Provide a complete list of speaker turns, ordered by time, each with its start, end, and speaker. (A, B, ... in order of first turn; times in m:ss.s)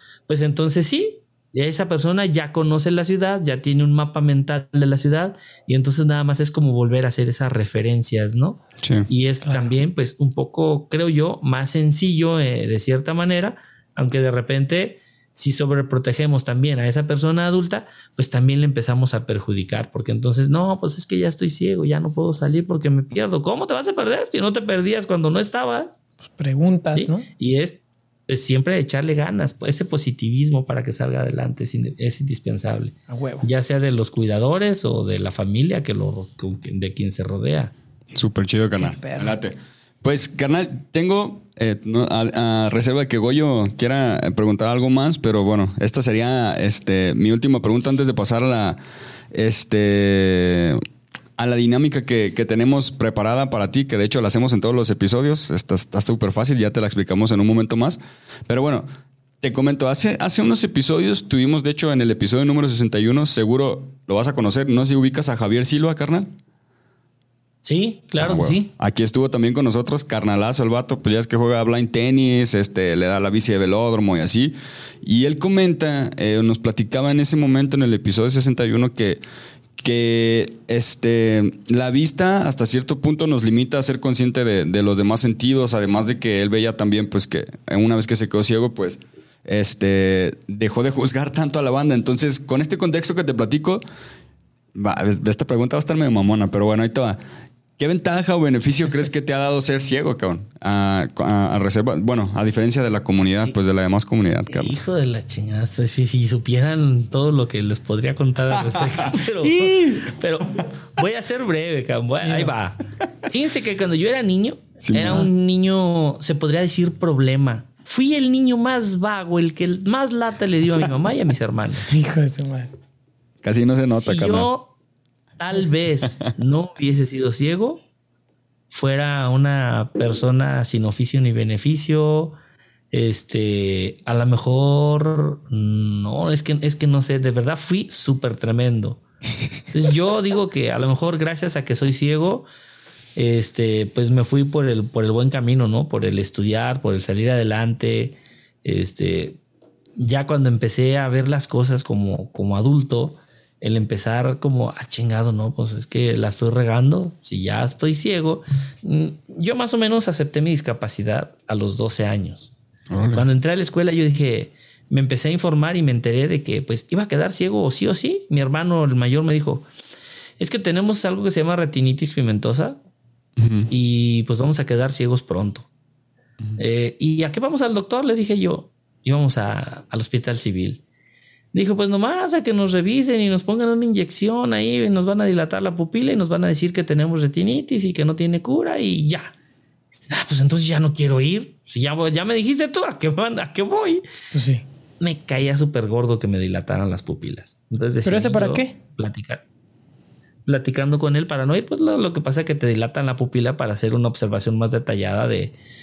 0:00.3-0:26.0 A
0:08.8-0:09.1 B
0:09.5-0:09.8 C
0:26.2-0:27.2 C
0:26.9-0:37.7 A
0:33.1-0:33.5 C
0:38.1-0:48.8 B
0:38.8-0:39.4 C
0:49.3-0:50.8 B
0:51.4-0:58.9 B
0:59.4-1:06.3 B
1:07.6-1:08.7 A
1:08.2-1:19.2 B
1:19.8-1:33.8 B
1:34.8-1:37.2 B
1:37.8-1:44.8 B
1:44.5-2:01.9 A
1:48.6-1:50.0 B
1:52.2-1:52.5 C
1:54.8-1:55.3 B
2:01.9-2:02.7 C
2:03.4-2:04.5 B
2:03.9-2:04.7 A
2:05.4-2:07.8 A
2:08.7-2:12.4 A
2:12.9-2:19.0 A
2:19.7-2:22.5 A
2:23.2-2:29.4 A
2:30.0-2:42.5 A
2:42.9-2:43.3 B
2:43.1-2:49.6 A
2:50.4-2:52.8 A
2:53.4-2:53.7 B
2:53.7-2:55.7 A
2:56.6-3:00.8 A
3:01.5-3:09.3 A
3:10.0-3:14.0 A
3:14.3-3:14.6 C
3:15.0-3:19.4 A
3:18.0-3:18.8 C
3:20.5-3:25.5 A